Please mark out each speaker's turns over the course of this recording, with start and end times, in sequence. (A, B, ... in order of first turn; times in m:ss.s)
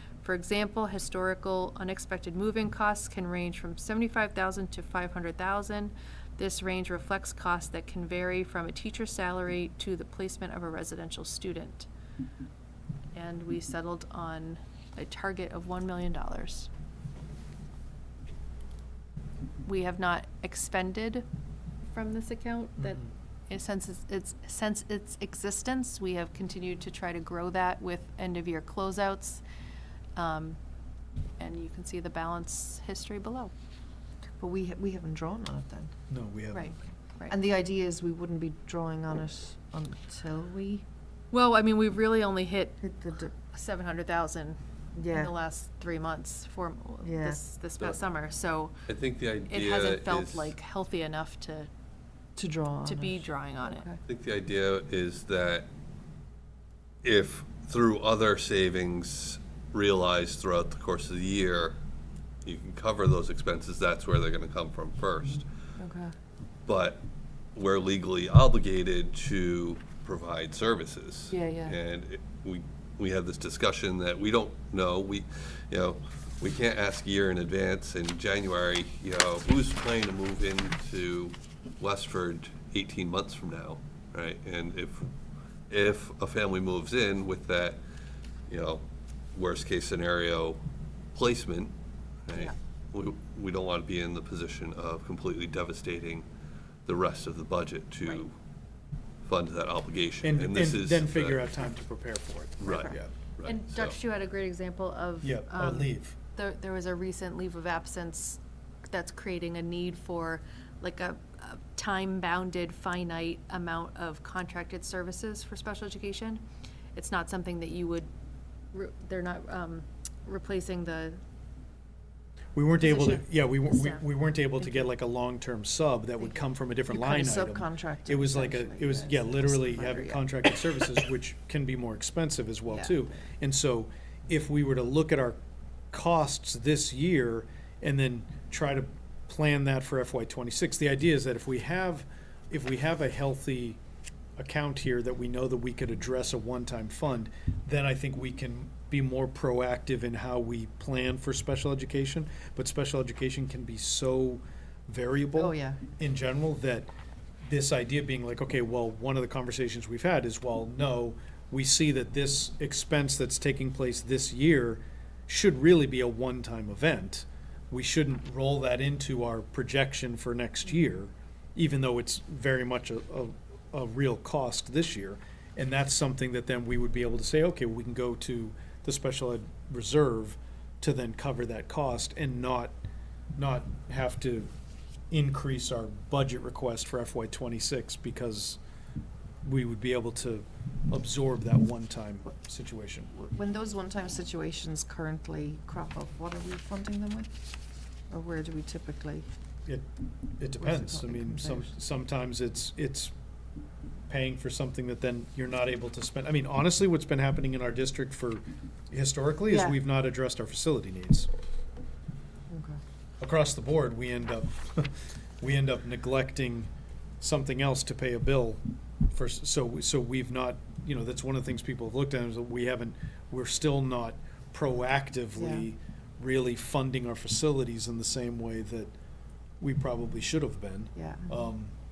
0:00.2-0:11.9 A
0:13.1-0:16.7 A
0:19.6-0:21.2 A
0:21.8-0:29.4 A
0:22.8-0:23.1 B
0:30.2-0:30.6 A
0:31.4-0:33.5 A
0:34.4-0:35.9 C
0:36.1-0:36.8 B
0:36.5-0:37.4 A
0:37.3-0:40.8 C
0:41.3-0:44.6 A
0:42.8-0:43.3 C
0:44.9-0:45.3 C
0:45.1-0:48.8 A
0:47.0-0:47.4 C
0:48.9-0:50.5 D
0:49.5-0:51.7 A
0:52.4-0:54.0 C
0:52.8-0:53.9 A
0:54.1-0:55.7 D
0:57.0-1:01.8 D
1:02.4-1:05.5 D
1:05.8-1:06.1 C
1:06.6-1:07.0 D
1:07.5-1:25.1 D
1:11.3-1:11.8 C
1:25.7-1:27.8 D
1:28.5-1:28.8 D
1:29.3-1:30.6 D
1:31.1-1:31.7 D
1:32.3-1:36.3 D
1:36.8-1:38.3 D
1:39.2-1:41.5 D
1:40.2-1:43.1 B
1:42.6-1:44.0 D
1:43.4-1:56.4 A
1:45.2-1:46.2 B
1:56.9-1:58.1 A
1:58.7-2:01.2 A
2:02.5-2:15.4 B
2:03.0-2:04.0 A
2:06.9-2:10.5 C
2:12.7-2:13.0 C
2:15.9-2:23.8 B
2:24.4-2:36.9 B
2:35.4-2:35.8 C
2:37.4-3:02.8 B
3:03.4-3:04.5 B
3:05.1-3:08.6 B
3:09.4-3:13.1 B
3:13.1-3:17.3 C
3:18.1-3:19.3 C
3:19.6-3:23.1 B
3:20.6-3:21.7 C
3:24.1-3:31.3 B
3:29.5-3:29.8 C
3:32.5-3:32.8 C
3:33.2-3:36.7 B
3:37.2-3:48.9 B
3:45.4-3:45.6 C
3:49.6-3:51.7 B
3:51.0-3:51.4 C